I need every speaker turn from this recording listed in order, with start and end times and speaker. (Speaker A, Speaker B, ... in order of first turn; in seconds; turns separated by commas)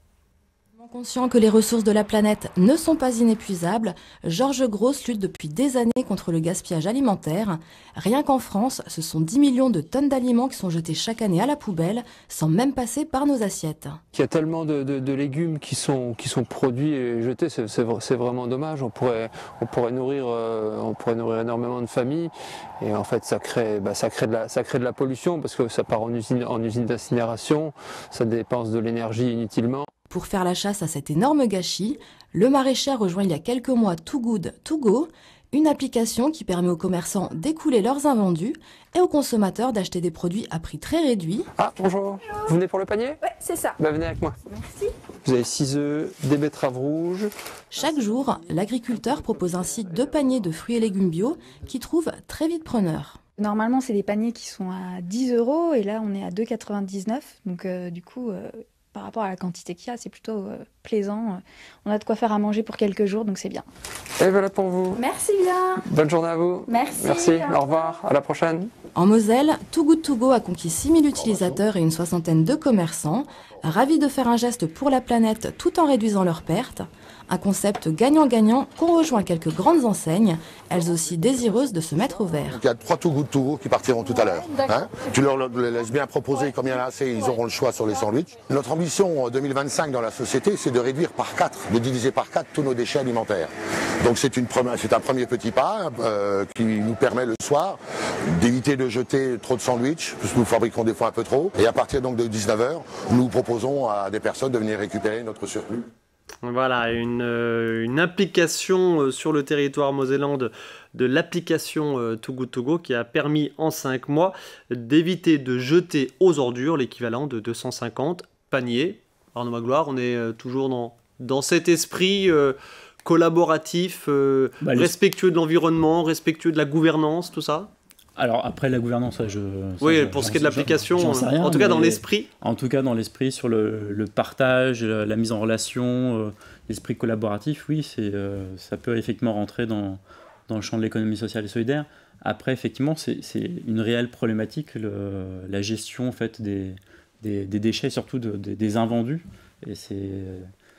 Speaker A: 0.7-14.0, Speaker B: 14.1-29.9, Speaker A: 30.1-41.5, Speaker B: 41.5-43.2, Speaker C: 43.2-43.8, Speaker B: 43.8-44.4, Speaker C: 44.5-44.9, Speaker B: 45.2-47.3, Speaker A: 47.7-53.2, Speaker C: 53.4-63.6, Speaker B: 64.2-65.0, Speaker C: 65.0-65.8, Speaker B: 65.8-68.7, Speaker C: 66.7-67.5, Speaker A: 68.9-82.6, Speaker D: 82.5-93.5, Speaker D: 94.0-97.8, Speaker D: 98.4-105.8, Speaker E: 106.4-127.7, Speaker F: 124.6-124.9, Speaker F: 128.2-150.5, Speaker E: 129.8-132.3